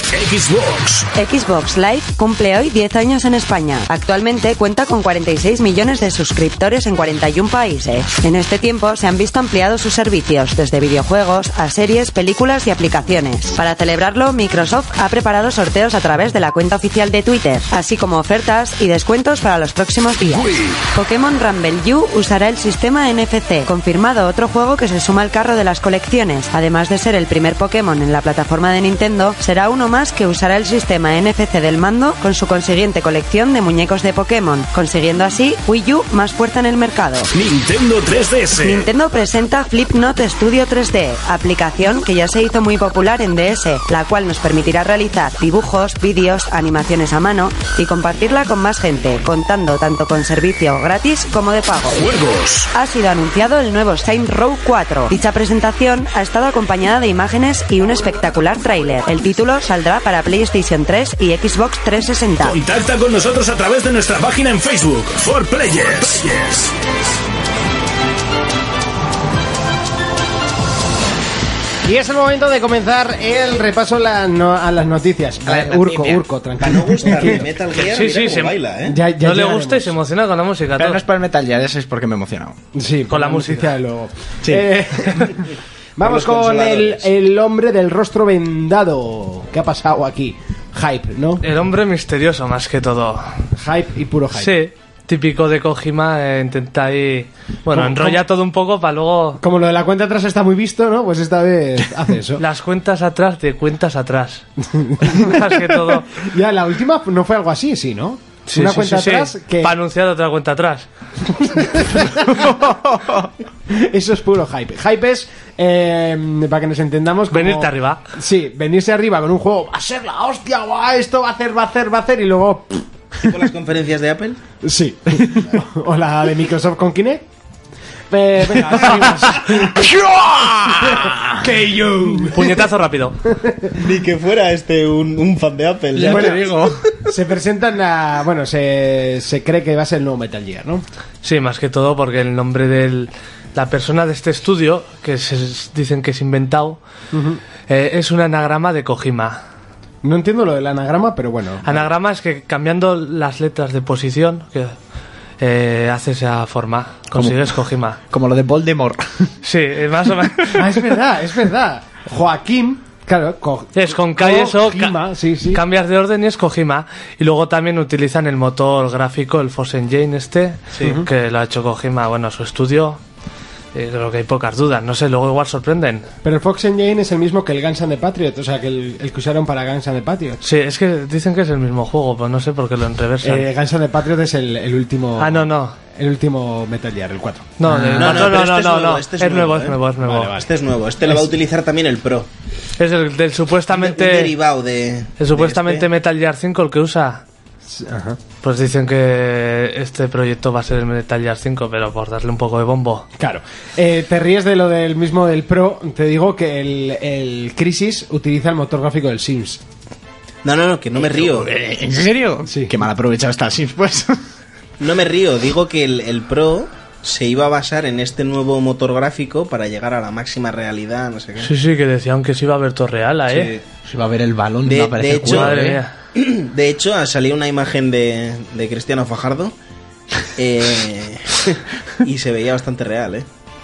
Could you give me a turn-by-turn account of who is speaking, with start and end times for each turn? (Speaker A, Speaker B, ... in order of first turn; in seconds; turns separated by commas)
Speaker A: 0.1-1.1, Speaker B: 1.1-37.3, Speaker A: 37.3-38.9, Speaker B: 38.6-52.0, Speaker A: 51.9-52.7, Speaker B: 52.7-62.6, Speaker A: 62.4-66.8, Speaker C: 71.8-77.5, Speaker D: 75.4-76.2, Speaker E: 76.6-79.0, Speaker F: 77.7-78.6, Speaker C: 78.8-79.9, Speaker F: 79.2-81.0, Speaker D: 80.8-82.6, Speaker C: 82.7-91.4, Speaker F: 83.1-83.7, Speaker D: 84.4-84.7, Speaker E: 86.0-87.1, Speaker F: 91.4-93.3, Speaker C: 93.5-94.5, Speaker F: 94.3-99.4, Speaker C: 97.7-98.2, Speaker C: 99.4-102.4, Speaker F: 102.4-104.4, Speaker C: 104.6-109.7, Speaker F: 105.0-106.1, Speaker F: 108.5-110.9, Speaker C: 111.3-112.4, Speaker D: 112.0-113.3, Speaker C: 113.7-123.3, Speaker F: 117.3-118.0, Speaker E: 123.2-124.4, Speaker C: 124.6-127.2, Speaker C: 128.1-129.9, Speaker D: 129.4-131.5, Speaker C: 130.9-132.6, Speaker F: 132.3-133.2, Speaker C: 133.3-133.7, Speaker E: 133.7-136.6, Speaker D: 135.9-136.9, Speaker C: 136.0-136.5, Speaker C: 137.0-140.8, Speaker F: 141.2-146.8, Speaker C: 147.1-147.4, Speaker F: 147.7-149.4, Speaker C: 150.0-151.9, Speaker F: 151.6-154.7, Speaker F: 155.4-158.0, Speaker D: 157.1-159.3, Speaker F: 159.4-160.7, Speaker C: 160.5-165.6, Speaker F: 163.7-165.0, Speaker F: 165.5-173.0, Speaker E: 170.7-171.0, Speaker C: 170.8-171.1, Speaker F: 173.7-176.1, Speaker C: 176.2-180.4, Speaker F: 180.4-183.4, Speaker C: 183.2-187.5, Speaker F: 185.2-185.8, Speaker F: 187.6-190.3, Speaker D: 187.7-188.3, Speaker E: 188.0-189.8, Speaker C: 190.0-190.5, Speaker E: 190.4-192.3, Speaker C: 191.0-191.3, Speaker F: 192.8-194.3, Speaker E: 193.7-195.9, Speaker F: 195.2-197.2, Speaker C: 197.7-198.2, Speaker F: 198.4-203.1, Speaker C: 203.2-209.6, Speaker E: 210.4-211.5, Speaker D: 211.0-214.2, Speaker C: 212.5-212.7, Speaker E: 214.8-221.5, Speaker F: 221.4-223.5, Speaker E: 223.3-223.6, Speaker D: 223.8-225.8, Speaker E: 224.6-225.6, Speaker F: 225.2-225.9, Speaker E: 226.1-229.5, Speaker E: 230.3-233.2